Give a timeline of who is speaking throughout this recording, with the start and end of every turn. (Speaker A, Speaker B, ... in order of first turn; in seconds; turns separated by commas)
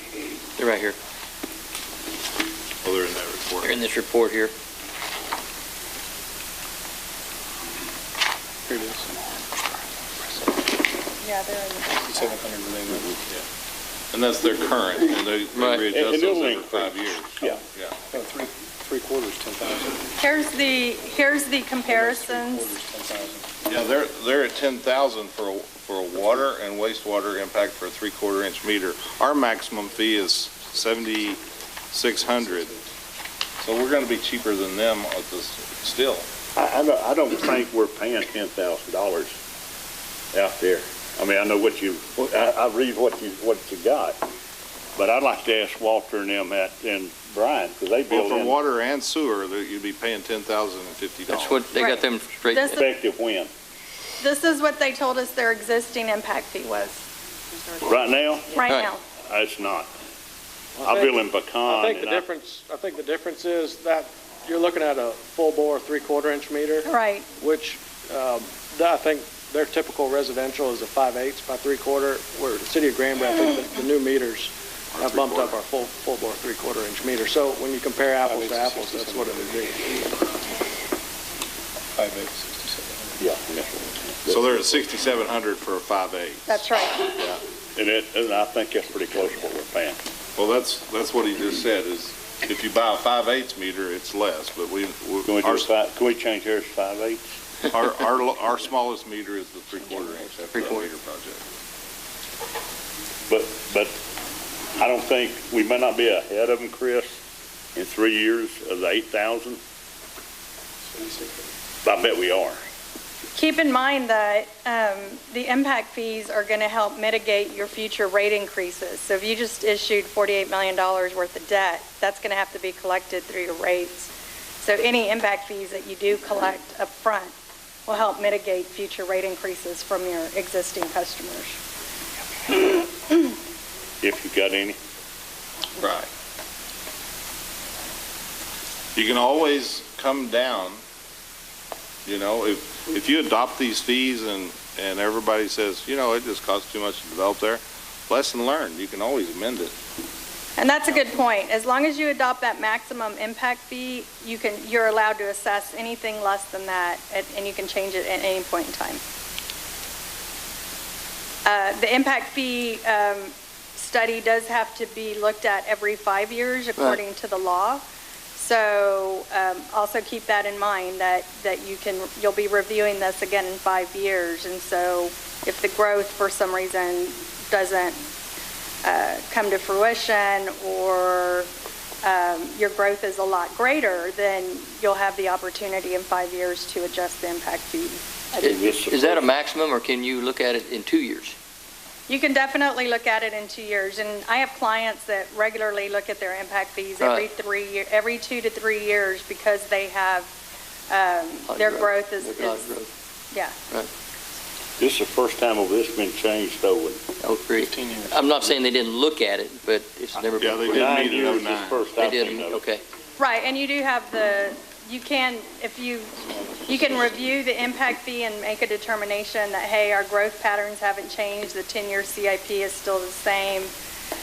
Speaker A: 0.6-1.0, Speaker B: 2.8-3.8, Speaker A: 3.6-4.5, Speaker C: 8.7-9.1, Speaker D: 11.2-12.3, Speaker C: 12.0-13.1, Speaker B: 14.1-18.0, Speaker A: 15.5-15.9, Speaker E: 15.9-17.6, Speaker C: 18.1-20.1, Speaker D: 20.2-22.7, Speaker C: 21.8-23.5, Speaker B: 23.6-32.7, Speaker B: 33.6-36.3, Speaker E: 36.5-39.3, Speaker E: 40.3-44.2, Speaker E: 45.0-48.6, Speaker B: 48.1-51.6, Speaker A: 51.3-52.8, Speaker D: 51.8-52.9, Speaker E: 52.7-53.5, Speaker D: 54.2-57.0, Speaker E: 57.8-58.5, Speaker D: 58.5-59.0, Speaker A: 58.6-58.9, Speaker E: 59.2-59.9, Speaker F: 60.8-80.1, Speaker E: 60.8-62.2, Speaker D: 66.8-67.3, Speaker B: 75.0-75.5, Speaker C: 78.2-79.6, Speaker C: 82.0-83.2, Speaker E: 83.2-83.7, Speaker B: 84.2-87.4, Speaker D: 86.5-87.1, Speaker E: 87.8-90.0, Speaker B: 90.3-95.7, Speaker E: 95.2-97.3, Speaker B: 97.7-101.4, Speaker E: 103.3-104.0, Speaker E: 104.8-107.2, Speaker E: 107.7-109.6, Speaker C: 110.9-111.4, Speaker E: 111.8-112.6, Speaker D: 113.3-124.1, Speaker D: 124.6-127.3, Speaker D: 127.9-131.6, Speaker E: 134.0-134.8, Speaker B: 135.8-136.1, Speaker B: 138.9-140.8, Speaker B: 142.1-149.7, Speaker D: 150.6-159.0, Speaker D: 161.4-167.8, Speaker D: 168.3-177.9, Speaker D: 178.8-181.5, Speaker D: 182.0-188.7, Speaker E: 188.4-189.2, Speaker A: 188.4-191.3, Speaker D: 192.1-200.3, Speaker A: 197.0-197.3, Speaker D: 200.9-202.7, Speaker A: 201.5-202.9, Speaker E: 204.8-207.0, Speaker A: 207.2-210.9, Speaker C: 207.6-208.2, Speaker B: 210.4-211.8, Speaker E: 210.7-212.6, Speaker A: 212.0-212.8, Speaker D: 213.2-223.7, Speaker C: 216.4-217.1